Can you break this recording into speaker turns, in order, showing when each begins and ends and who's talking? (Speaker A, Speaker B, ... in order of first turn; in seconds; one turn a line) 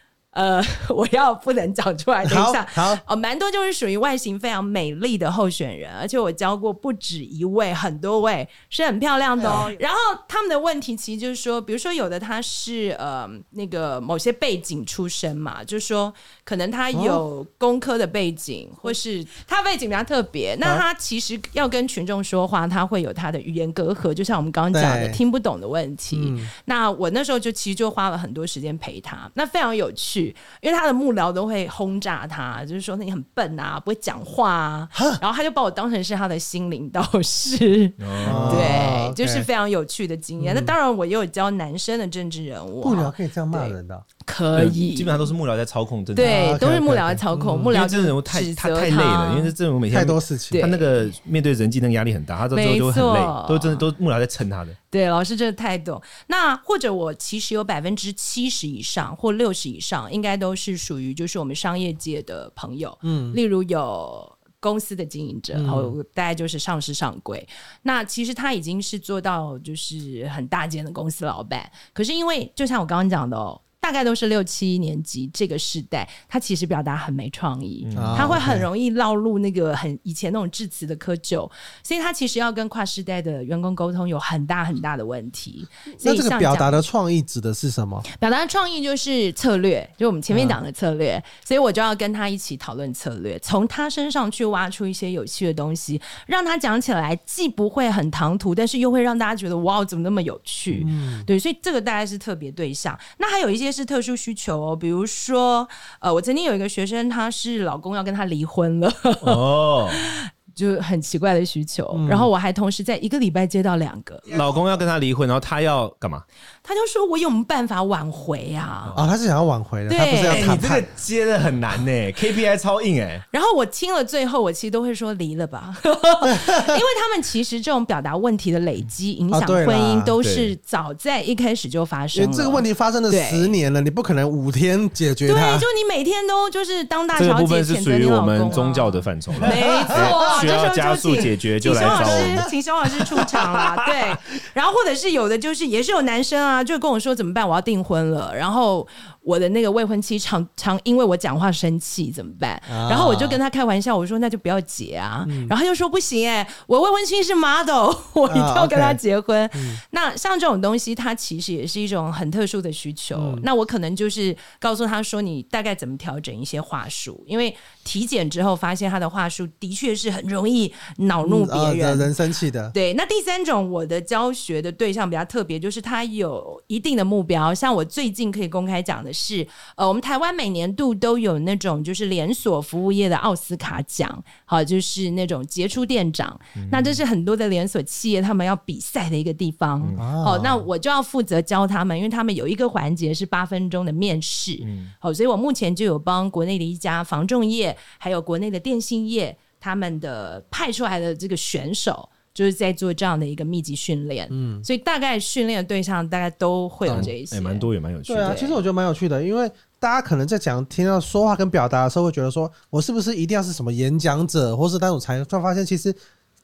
Speaker A: 0.3-45.3
Speaker B: 2.2-3.0
Speaker B: 9.4-9.7
Speaker B: 16.9-17.2
Speaker B: 24.7-25.2
Speaker B: 26.1-26.5
Speaker C: 38.0-38.9
Speaker B: 38.2-39.5
Speaker B: 40.4-40.8
Speaker B: 42.8-44.0
Speaker C: 44.5-46.6
Speaker A: 46.1-49.5
Speaker B: 46.2-47.7
Speaker C: 47.7-54.8
Speaker B: 49.9-50.6
Speaker A: 50.5-51.1
Speaker A: 52.5-53.9
Speaker A: 54.9-86.8
Speaker B: 63.0-63.4
Speaker B: 65.5-65.9
Speaker C: 77.8-78.4
Speaker B: 77.9-78.7
Speaker B: 86.0-88.1
Speaker A: 88.1-114.3
Speaker B: 90.3-90.6
Speaker B: 100.8-101.3
Speaker C: 109.2-110.0
Speaker B: 111.9-112.3
Speaker C: 114.3-116.2
Speaker A: 116.6-119.0
Speaker B: 118.9-120.9
Speaker A: 119.9-120.5
Speaker C: 120.3-123.2
Speaker A: 123.3-133.6
Speaker B: 126.2-126.8
Speaker B: 129.3-130.1
Speaker C: 130.2-130.5
Speaker B: 132.1-135.7
Speaker A: 135.3-172.1
Speaker C: 137.1-142.4
Speaker B: 139.4-140.4
Speaker B: 141.7-142.5
Speaker C: 143.1-144.2
Speaker B: 152.7-153.4
Speaker B: 155.2-155.5
Speaker B: 158.3-159.0
Speaker B: 159.5-159.8
Speaker B: 163.1-163.4
Speaker B: 171.2-172.7
Speaker A: 172.7-207.7
Speaker C: 186.6-187.0
Speaker B: 189.9-190.7
Speaker C: 194.6-194.9
Speaker B: 204.3-204.6
Speaker C: 206.9-208.4
Speaker B: 208.1-216.0
Speaker A: 208.2-208.6